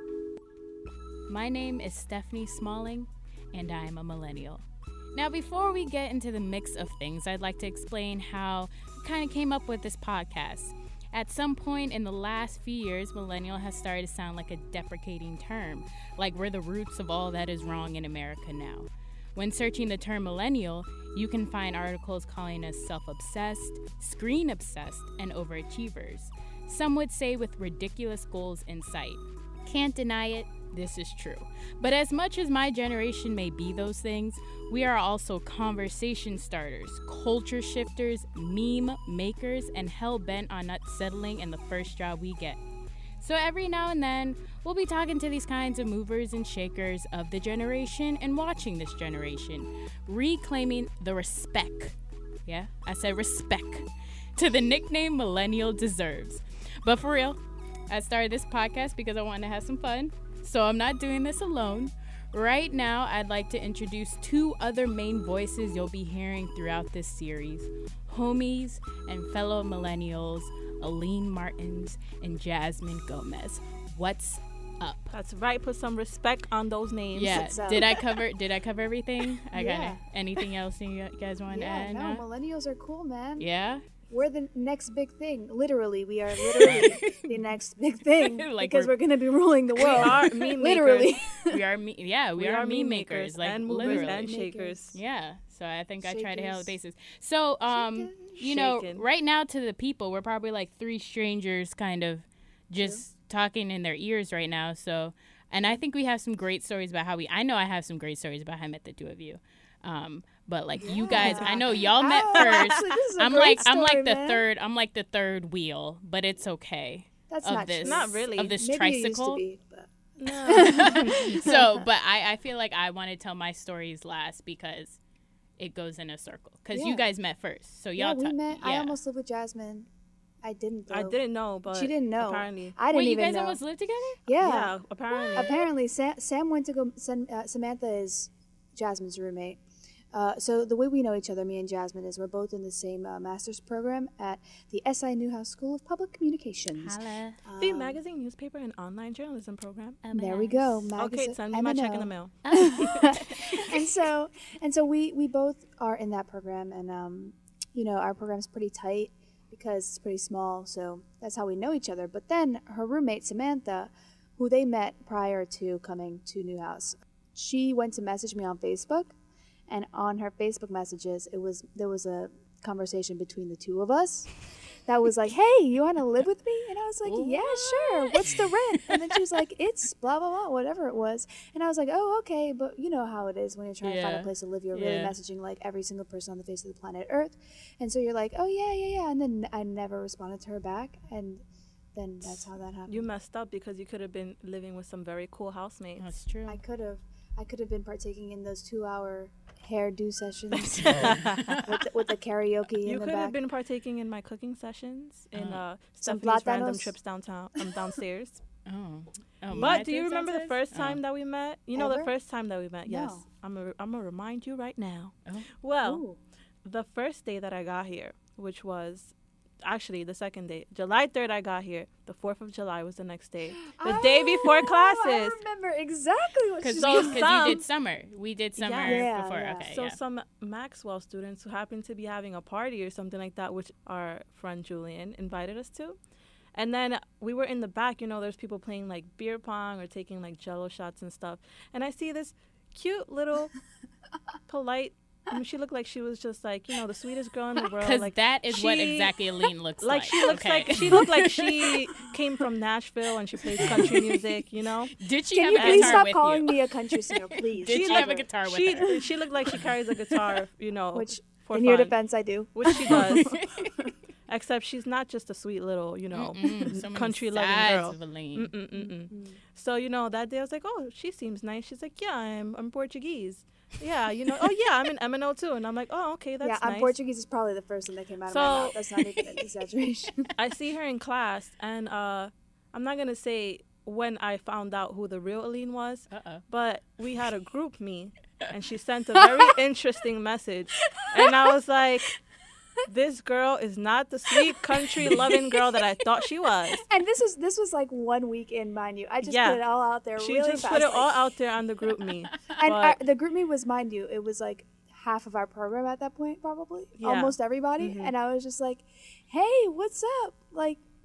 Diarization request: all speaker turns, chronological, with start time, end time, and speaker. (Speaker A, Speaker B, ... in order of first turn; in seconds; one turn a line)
Speaker A: 1.3-42.6
Speaker A: 43.2-75.1
Speaker B: 75.1-78.0
Speaker A: 77.1-82.2
Speaker C: 77.3-77.9
Speaker C: 79.5-80.0
Speaker C: 81.5-83.5
Speaker A: 83.4-83.8
Speaker C: 84.1-91.6
Speaker A: 86.4-87.5
Speaker A: 88.2-88.9
Speaker B: 89.8-91.1
Speaker A: 89.8-90.1
Speaker A: 91.5-94.3
Speaker B: 92.4-94.9
Speaker C: 93.8-94.8
Speaker A: 94.9-119.4
Speaker C: 96.0-96.7
Speaker C: 97.7-98.3
Speaker B: 98.4-99.0
Speaker C: 102.8-103.0
Speaker C: 110.8-114.4
Speaker B: 111.1-111.8
Speaker B: 112.3-112.8
Speaker C: 117.3-121.9
Speaker B: 117.8-118.5
Speaker B: 120.2-121.2
Speaker A: 120.5-125.0
Speaker A: 125.6-129.0
Speaker C: 126.7-127.0
Speaker C: 128.0-129.9
Speaker C: 130.4-131.2
Speaker B: 130.9-132.7
Speaker C: 131.7-133.6
Speaker A: 132.9-134.2
Speaker C: 134.3-134.7
Speaker B: 134.4-135.6
Speaker C: 135.3-139.6
Speaker C: 140.1-148.0
Speaker A: 146.8-147.4
Speaker B: 147.6-150.0
Speaker A: 150.0-150.9
Speaker C: 150.1-169.1
Speaker B: 151.0-153.7
Speaker A: 152.4-153.7
Speaker C: 169.7-174.3
Speaker C: 174.9-193.1
Speaker A: 177.0-179.0
Speaker A: 183.8-185.1
Speaker B: 192.9-196.1
Speaker A: 196.0-196.6
Speaker C: 196.5-203.4
Speaker A: 200.5-201.8
Speaker B: 200.9-201.5
Speaker B: 202.8-208.4
Speaker A: 205.3-205.6
Speaker C: 206.0-206.9
Speaker A: 208.7-211.0
Speaker B: 209.5-216.0
Speaker C: 211.8-212.1
Speaker C: 212.9-213.2
Speaker C: 215.8-216.2
Speaker B: 216.6-225.4
Speaker C: 223.6-227.6
Speaker A: 226.6-230.0
Speaker B: 226.8-227.6
Speaker B: 228.6-229.1
Speaker C: 228.8-229.7
Speaker B: 229.7-236.0
Speaker B: 236.5-243.5
Speaker B: 244.5-249.1
Speaker A: 247.8-251.8
Speaker B: 249.8-254.9
Speaker C: 250.7-251.0
Speaker A: 253.6-254.0
Speaker C: 253.6-254.0
Speaker A: 255.0-256.5
Speaker C: 255.3-258.3
Speaker B: 255.6-256.0
Speaker A: 257.1-258.9
Speaker B: 257.7-261.9
Speaker C: 258.8-259.1
Speaker C: 260.9-263.9
Speaker B: 262.5-263.3
Speaker A: 262.7-263.9
Speaker B: 264.3-276.9
Speaker A: 266.1-268.5
Speaker C: 268.7-269.4
Speaker C: 276.4-280.3
Speaker B: 278.3-278.8
Speaker B: 280.4-292.1
Speaker A: 286.1-286.4
Speaker A: 290.8-291.4
Speaker B: 292.9-296.8
Speaker A: 295.0-295.4
Speaker C: 296.9-301.2
Speaker B: 299.2-299.6
Speaker B: 300.2-303.0
Speaker C: 302.6-310.8
Speaker B: 307.0-308.1